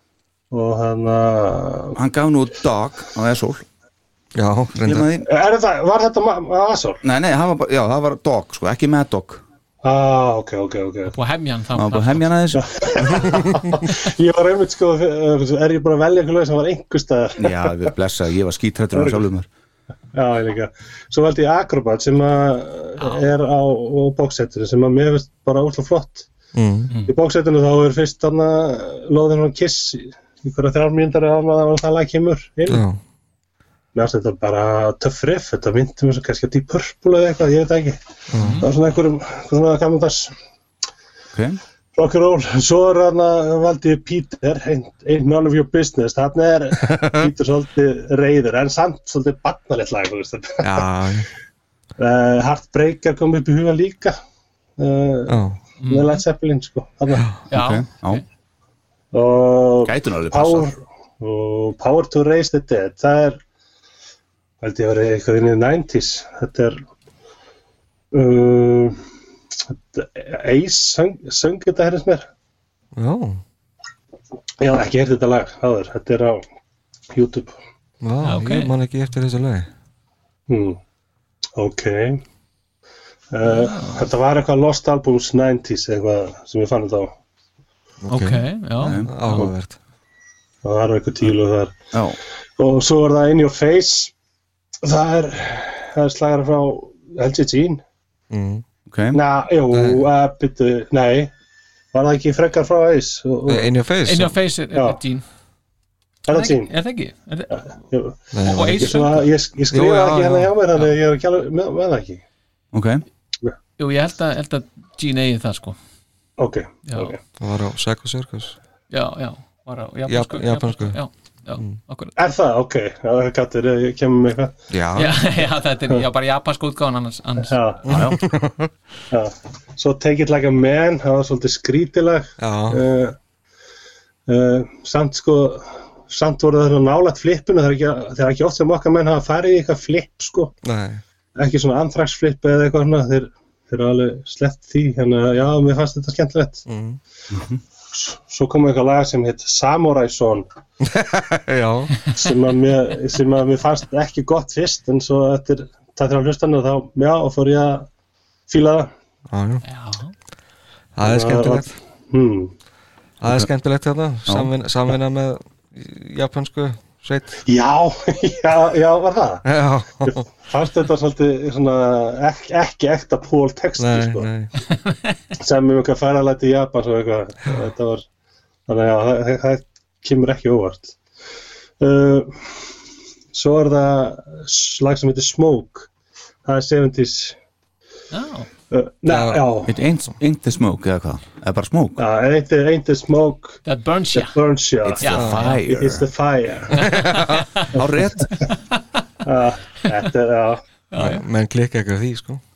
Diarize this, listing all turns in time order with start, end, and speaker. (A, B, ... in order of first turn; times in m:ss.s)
0:00.5-0:02.0 A
0:02.0-0:03.6 B
0:04.4-0:05.1 C
0:04.8-0:05.3 B
0:05.2-0:07.0 A
0:07.0-0:09.4 B
0:09.8-0:11.2 A
0:11.1-0:12.3 D
0:11.8-0:12.8 B
0:12.5-0:17.9 A
0:17.4-0:19.5 B
0:18.9-0:19.2 A
0:20.1-0:26.3 A
0:26.6-0:26.9 C
0:27.0-0:32.8 A
0:32.7-0:33.0 C
0:34.0-0:38.0 A
0:38.3-0:38.6 C
0:38.4-0:38.7 D
0:38.6-0:40.3 A
0:41.3-0:41.6 B
0:42.0-0:50.9 A
0:50.6-0:51.3 C
0:52.0-0:54.2 A
0:54.8-0:57.3 A
0:55.3-0:55.6 C
0:55.8-0:56.2 D
0:57.5-0:58.2 D
0:57.5-0:58.2 B
0:59.1-1:03.4 A
0:59.8-1:00.7 B
1:04.6-1:06.8 A
1:08.1-1:09.0 A
1:09.9-1:12.3 A
1:13.0-1:13.4 C
1:14.6-1:16.4 A
1:17.1-1:17.6 A
1:18.0-1:19.7 C
1:18.2-1:18.7 D
1:20.5-1:20.8 A
1:21.6-1:22.2 A
1:23.3-1:27.1 A
1:23.5-1:24.0 D
1:28.0-1:29.8 C
1:28.1-1:29.0 D
1:28.8-1:29.5 B
1:30.6-1:31.8 A
1:31.9-1:32.2 B
1:32.6-1:34.1 A
1:34.8-1:37.8 A
1:38.3-1:38.6 C
1:38.9-1:39.2 B
1:39.1-1:41.3 A
1:39.7-1:40.0 C
1:41.9-1:43.7 A
1:43.5-1:44.4 C
1:44.1-1:45.2 D
1:44.7-1:45.0 A
1:46.3-1:46.7 A
1:46.3-1:47.6 D
1:47.5-1:52.2 A
1:48.3-1:50.5 C
1:48.4-1:49.3 D
1:52.7-1:53.0 B
1:53.8-1:55.8 D
1:56.4-1:57.2 A
1:56.9-1:57.1 D
1:57.4-1:58.6 C
1:58.9-2:02.1 D
2:00.1-2:01.0 C
2:02.2-2:04.6 A
2:04.7-2:05.2 C
2:05.0-2:07.5 D
2:07.4-2:07.8 A
2:07.9-2:08.2 B
2:07.9-2:08.7 C
2:09.1-2:13.2 A
2:12.4-2:12.8 C
2:14.3-2:20.5 A
2:20.6-2:21.0 C
2:21.4-2:26.6 A
2:26.7-2:27.0 C
2:27.3-2:27.6 B
2:27.9-2:30.5 A
2:30.8-2:32.2 C
2:32.1-2:37.9 A
2:38.5-2:38.9 A
2:39.3-2:39.6 C
2:39.6-2:40.1 D
2:41.0-2:41.7 C
2:41.0-2:42.5 A
2:43.2-2:47.4 C
2:47.5-2:49.4 A
2:49.5-2:50.2 C
2:50.0-2:54.3 A
2:53.8-2:54.5 C
2:55.4-2:58.0 A
2:58.7-3:01.0 A
3:01.8-3:02.6 A
3:03.3-3:05.9 A
3:06.4-3:07.4 A
3:08.1-3:08.5 D
3:08.7-3:09.7 A
3:09.1-3:09.4 C
3:09.7-3:12.0 B
3:12.0-3:13.6 A
3:13.6-3:14.4 D
3:14.1-3:15.1 A
3:14.8-3:16.0 B
3:15.0-3:15.6 D
3:15.6-3:16.7 A
3:16.7-3:17.8 D
3:17.7-3:18.3 B
3:19.2-3:20.6 A
3:20.9-3:21.2 D
3:21.0-3:22.4 C